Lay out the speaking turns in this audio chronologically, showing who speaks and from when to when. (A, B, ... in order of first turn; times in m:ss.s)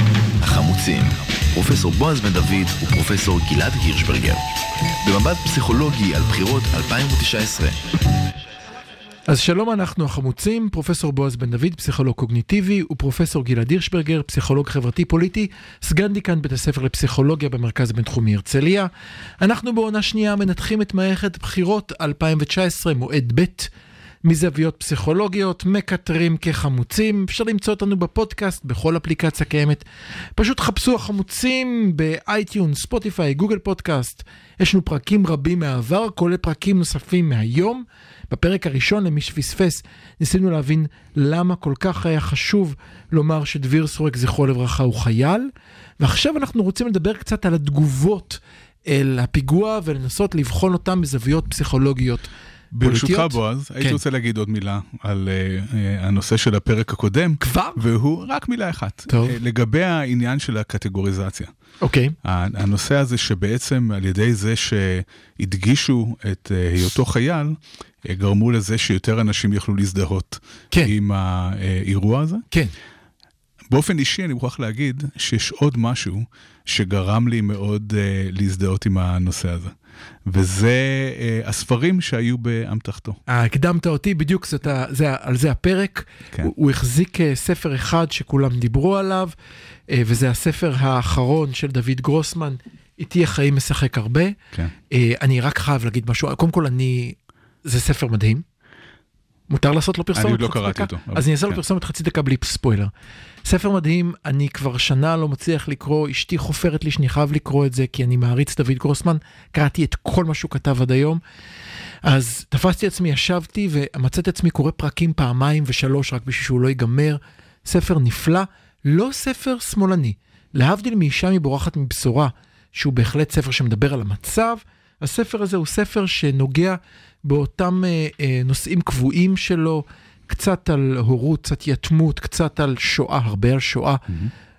0:00.4-0:04.4 A
0:05.0-0:07.8 A
0:09.3-0:23.7 B
0:24.2-0:29.8 B
0:30.4-0:54.0 B
0:52.7-1:01.5 C
0:57.4-0:57.8 B
0:59.1-0:59.4 B
1:01.8-1:02.1 B
1:02.2-1:07.5 C
1:08.0-1:12.4 C
1:13.7-1:19.7 C
1:20.3-1:23.2 C
1:23.3-1:29.3 B
1:29.9-1:34.4 B
1:34.9-1:38.4 B
1:39.5-1:42.9 B
1:40.1-1:41.6 C
1:43.4-1:51.2 B
1:52.0-2:14.1 B